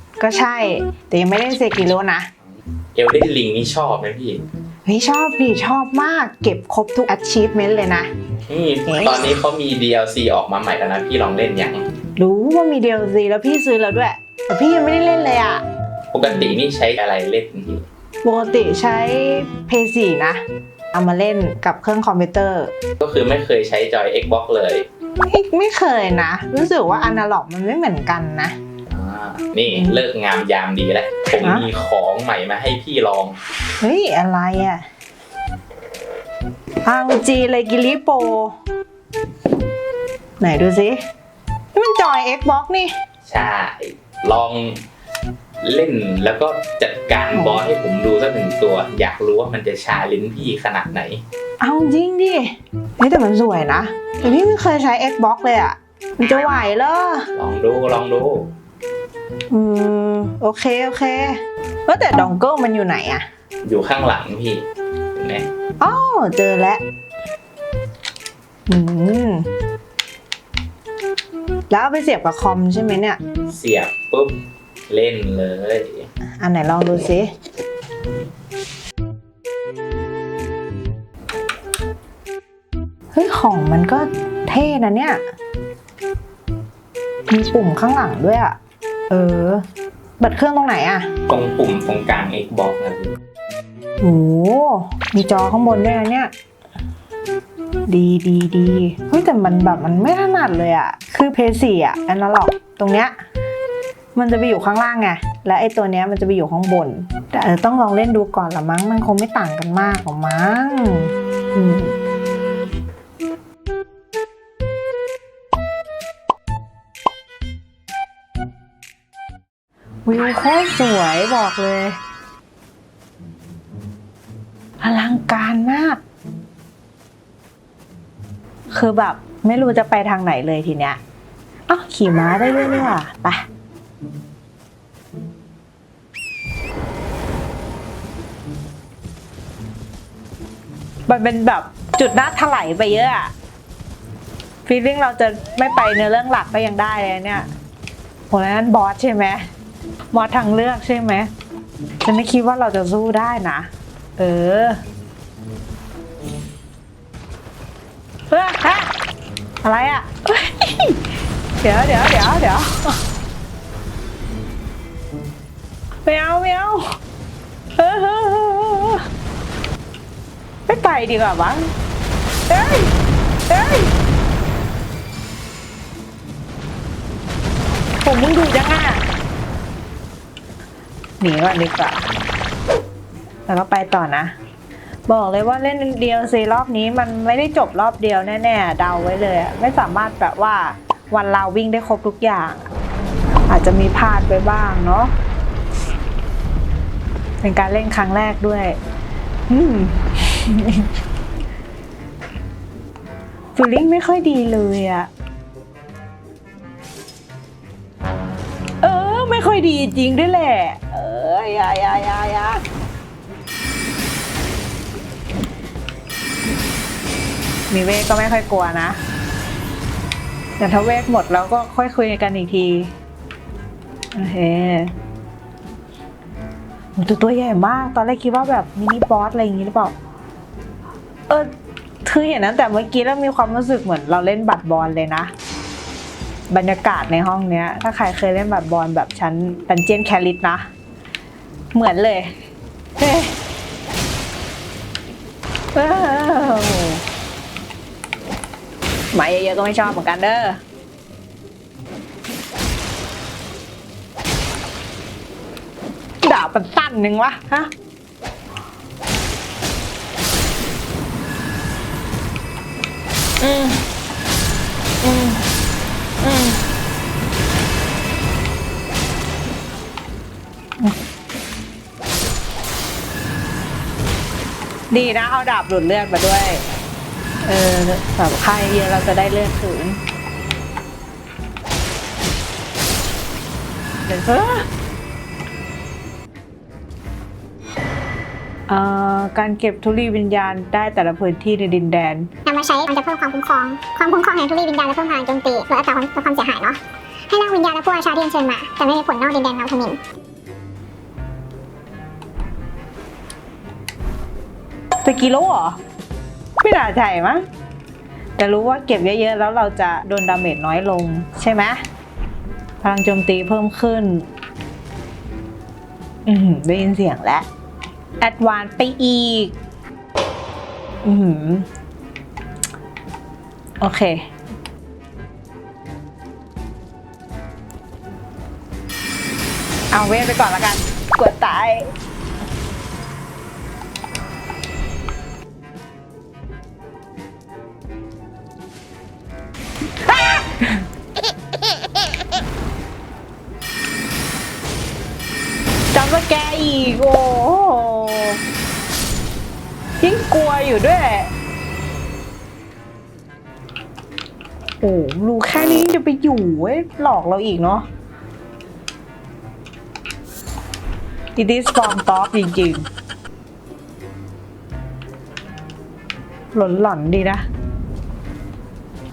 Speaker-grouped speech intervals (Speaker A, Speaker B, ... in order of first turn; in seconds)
Speaker A: 0.2-2.3, 4.9-8.1, 8.9-9.2, 12.2-15.6, 18.2-22.7, 25.3-28.5, 31.4-31.7, 33.8-34.9, 36.9-38.5, 40.4-41.0, 41.8-42.9, 47.4-47.6, 51.6-57.3, 59.5-63.2, 65.8-66.8, 68.7-69.5, 71.7-73.2, 76.4-77.3, 83.1-85.2, 87.3-88.6, 89.1-89.6, 90.2-91.1, 94.0-96.3, 97.9-103.1, 104.2-111.9, 120.1-122.0, 124.8-126.0, 128.7-131.0, 131.7-133.5, 141.1-143.3, 144.7-147.5, 148.3-149.4, 150.1-151.3, 152.0-154.8, 158.3-158.9, 159.6-161.0, 161.6-163.0, 166.1-166.8, 167.8-169.1, 170.7-171.7, 172.5-172.9, 173.5-173.9, 178.0-179.0, 181.2-182.0, 183.5-184.3, 185.1-192.7, 193.5-195.1, 197.4-198.8, 199.5-200.9, 203.6-205.1, 208.8-212.6, 217.7-219.0, 220.6-222.9, 224.1-224.9, 227.0-229.9, 232.1-235.3, 236.5-240.6, 241.7-242.3, 243.0-243.3, 245.7-247.0, 249.1-250.6, 256.2-257.7, 263.4-263.8, 265.0-265.4, 266.2-266.6, 274.9-276.6, 277.4-280.0, 284.1-284.7, 288.7-292.3, 305.0-305.8, 306.6-307.4, 308.4-311.8, 312.8-314.3, 316.3-317.5, 318.2-319.6, 321.0-321.7, 323.8-324.2, 329.9-331.9, 340.1-340.8, 345.9-348.4, 350.0-351.3, 354.8-357.9, 361.4-362.9, 366.5-367.4
Speaker B: 3.0-4.4, 8.5-11.8, 16.1-17.9, 23.0-24.9, 28.9-33.4, 43.3-44.8, 45.6-51.2, 57.4-58.5, 63.6-65.5, 73.5-76.1, 91.3-93.2
Speaker C: 292.5-300.0